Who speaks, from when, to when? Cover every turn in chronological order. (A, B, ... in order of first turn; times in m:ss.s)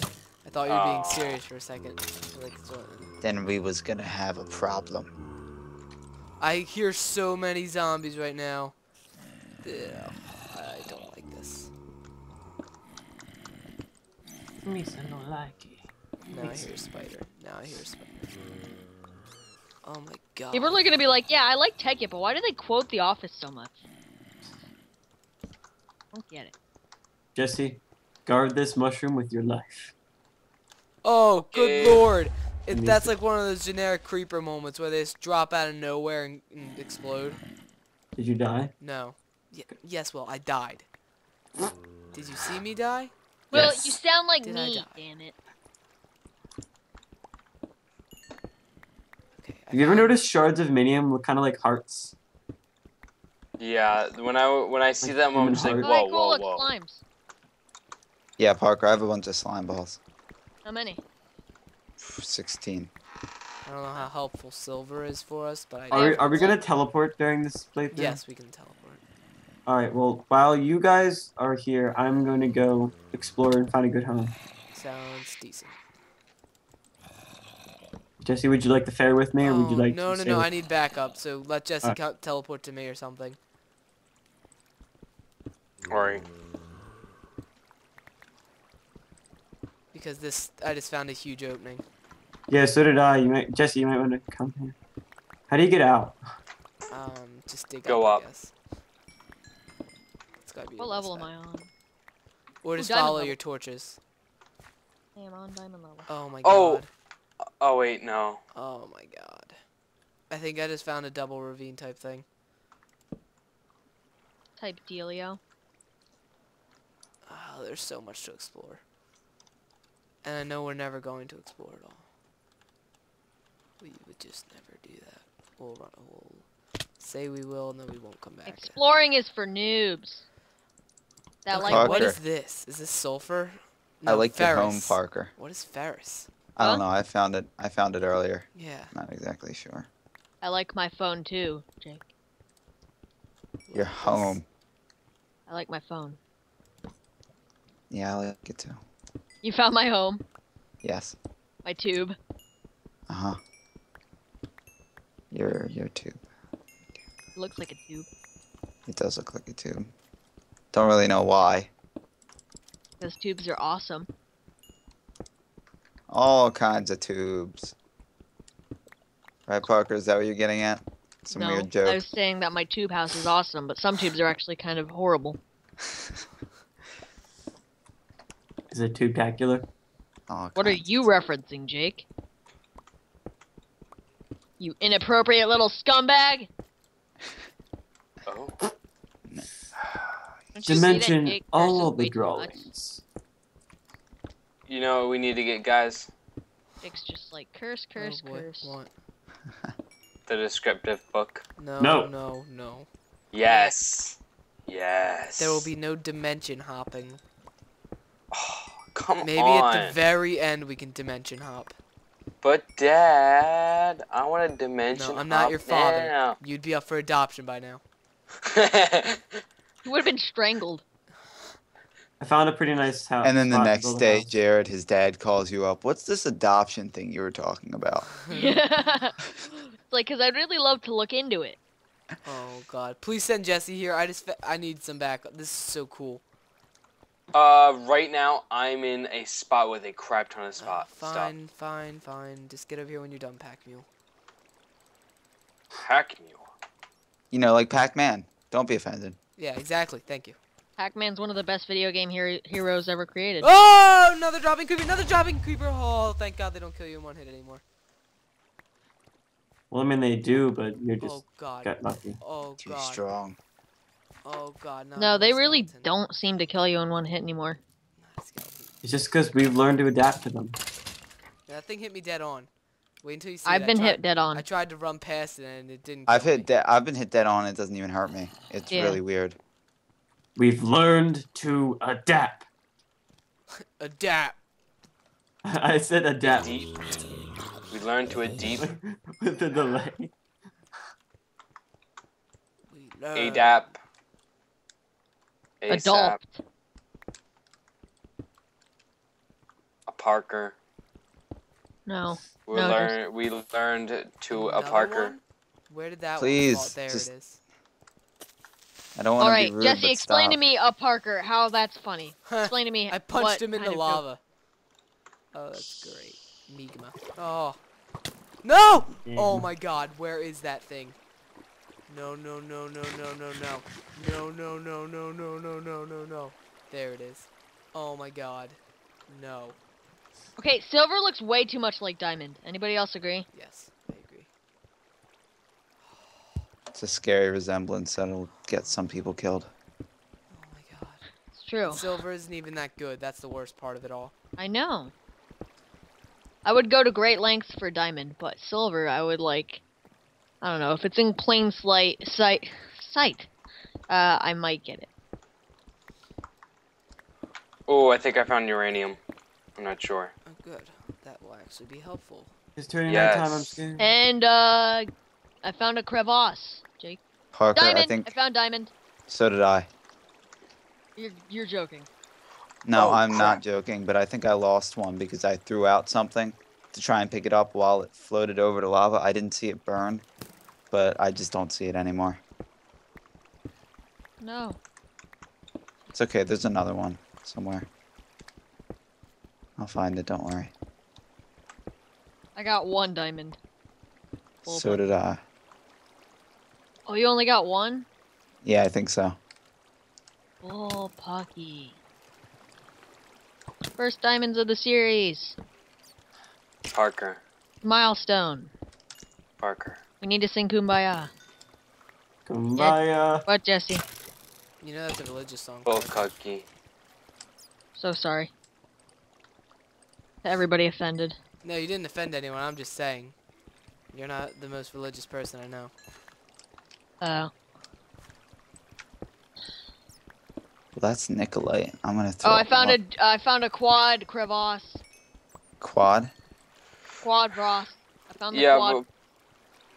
0:00.4-0:03.2 A
0:00.6-0:01.4 B
0:03.2-0:05.1 C
0:06.4-0:08.8 A
0:09.6-0:11.7 A
0:14.6-0:16.7 D
0:16.3-0:18.4 A
0:19.8-0:20.8 A
0:20.5-0:23.8 E
0:26.1-0:26.5 E
0:27.3-0:29.9 D
0:31.0-0:37.4 A
0:31.5-0:32.0 B
0:32.7-0:33.1 D
0:38.1-0:38.7 D
0:38.8-0:40.9 A
0:42.1-0:43.8 A
0:43.5-0:45.3 E
0:43.5-0:43.9 D
0:44.4-0:45.0 A
0:49.4-0:50.2 A
0:49.7-0:52.1 D
0:53.6-0:56.7 B
0:55.0-0:55.9 D
0:55.8-0:57.0 E
0:58.4-1:00.0 C
1:00.6-1:01.0 E
1:02.0-1:02.9 C
1:03.6-1:06.5 A
1:05.9-1:06.6 E
1:05.9-1:08.2 D
1:07.9-1:09.0 A
1:09.6-1:14.3 D
1:14.7-1:15.8 A
1:18.2-1:20.5 D
1:19.4-1:23.4 A
1:25.9-1:26.2 B
1:29.9-1:31.8 A
1:32.5-1:34.8 D
1:35.5-1:36.2 D
1:36.9-1:38.5 A
1:37.8-1:38.2 B
1:40.4-1:41.3 A
1:40.8-1:41.7 E
1:42.6-1:44.0 A
1:42.8-1:43.4 E
1:45.2-1:46.1 E
1:46.1-1:46.9 A
1:46.4-1:46.8 B
1:47.6-1:48.4 B
1:48.5-1:49.6 A
1:50.3-1:52.2 A
1:54.6-1:55.4 E
1:57.2-1:58.8 A
2:00.2-2:02.0 A
2:03.8-2:06.5 A
2:07.0-2:08.8 A
2:08.5-2:10.2 E
2:11.4-2:12.1 E
2:11.5-2:16.3 A
2:11.6-2:12.2 C
2:14.0-2:15.3 C
2:16.6-2:19.9 C
2:18.5-2:18.9 A
2:20.4-2:22.0 E
2:23.7-2:24.4 A
2:23.7-2:24.4 C
2:25.5-2:26.2 E
2:27.9-2:28.8 C
2:29.4-2:30.2 E
2:30.8-2:31.2 C
2:31.6-2:32.1 E
2:33.1-2:33.4 C
2:35.3-2:36.2 C
2:37.4-2:38.1 E
2:38.9-2:39.9 C
2:40.7-2:41.7 C
2:43.0-2:44.1 E
2:46.1-2:47.7 C
2:49.5-2:52.0 C
2:51.3-2:55.4 E
2:58.7-2:59.6 D
3:00.3-3:01.1 C
3:00.6-3:02.0 E
3:04.6-3:06.5 E
3:08.2-3:08.6 B
3:10.5-3:12.7 E
3:10.6-3:13.0 D
3:14.7-3:16.1 B
3:16.8-3:18.8 E
3:18.0-3:18.9 A
3:20.3-3:21.4 B
3:21.6-3:22.9 A
3:21.8-3:22.1 D
3:23.3-3:25.7 B
3:23.5-3:23.7 A
3:25.4-3:27.2 A
3:28.3-3:30.0 B
3:29.2-3:31.7 A
3:32.4-3:36.4 B
3:34.9-3:37.8 A
3:38.5-3:39.4 B
3:39.8-3:40.8 E
3:42.2-3:44.3 D
3:43.2-3:48.1 C
3:48.2-3:48.5 A
3:48.3-3:51.6 E
3:52.2-3:56.2 A
3:57.3-4:01.3 B
4:00.6-4:03.9 A
4:05.8-4:06.5 B
4:07.3-4:09.2 C
4:09.4-4:10.4 A
4:10.8-4:13.5 E
4:13.4-4:17.6 A
4:19.7-4:22.2 D
4:21.0-4:23.0 A
4:22.6-4:23.4 C
4:24.2-4:25.9 A
4:25.0-4:27.6 E
4:28.0-4:28.7 A
4:28.8-4:30.6 D
4:31.5-4:32.5 A
4:33.0-4:36.5 A
4:33.4-4:34.4 E
4:36.1-4:39.4 C
4:38.7-4:39.0 E
4:40.4-4:42.4 D
4:43.6-4:44.4 A
4:45.4-4:46.5 D
4:46.2-4:46.7 B
4:47.7-4:48.6 B
4:48.5-4:50.1 D
4:52.7-4:53.7 A
4:53.1-4:53.8 B
4:55.6-4:56.2 B
4:55.7-4:56.4 E
4:59.9-5:00.6 B
5:01.8-5:03.0 E
5:02.4-5:05.1 B
5:04.3-5:07.4 A
5:06.2-5:07.1 C
5:09.0-5:10.4 C
5:09.2-5:14.0 E
5:12.3-5:14.2 A
5:15.3-5:17.6 A
5:18.4-5:21.0 A
5:19.0-5:19.5 D
5:21.9-5:29.6 A
5:30.4-5:33.3 E
5:33.3-5:34.3 A
5:36.7-5:39.5 C
5:40.3-5:41.0 A
5:41.3-5:41.9 E
5:41.6-5:44.1 A
5:44.4-5:44.9 E
5:46.4-5:49.6 E
5:50.4-5:53.3 E
5:53.9-5:54.9 E
5:57.7-5:59.0 B
5:59.6-6:00.1 B
6:00.2-6:02.3 A
6:02.6-6:03.9 D
6:02.9-6:03.6 B
6:03.8-6:04.9 E
6:05.4-6:07.0 E
6:07.3-6:08.1 C
6:07.5-6:08.7 E
6:09.1-6:09.7 C
6:11.0-6:11.9 E
6:12.6-6:20.0 C
6:12.7-6:13.4 A
6:20.7-6:22.2 C
6:24.2-6:24.6 E
6:25.9-6:27.7 C
6:29.6-6:30.5 C
6:32.4-6:33.4 E
6:34.4-6:35.2 C
6:34.5-6:34.8 E
6:36.9-6:37.8 E
6:38.4-6:39.2 C
6:40.4-6:41.8 E
6:43.8-6:45.4 E
6:46.7-6:47.2 B
6:47.6-6:48.5 E
6:49.4-6:49.8 B
6:50.0-6:51.1 E
6:52.2-6:53.2 D
6:52.6-6:53.8 E
6:54.6-6:56.1 A
6:55.6-6:56.4 B
6:57.8-6:58.3 E
7:00.2-7:01.2 E
7:01.4-7:03.1 A
7:03.9-7:05.7 A
7:07.0-7:07.3 E
7:10.8-7:12.8 C
7:12.2-7:14.8 E
7:15.6-7:16.1 C
7:17.0-7:18.8 E
7:18.3-7:18.8 B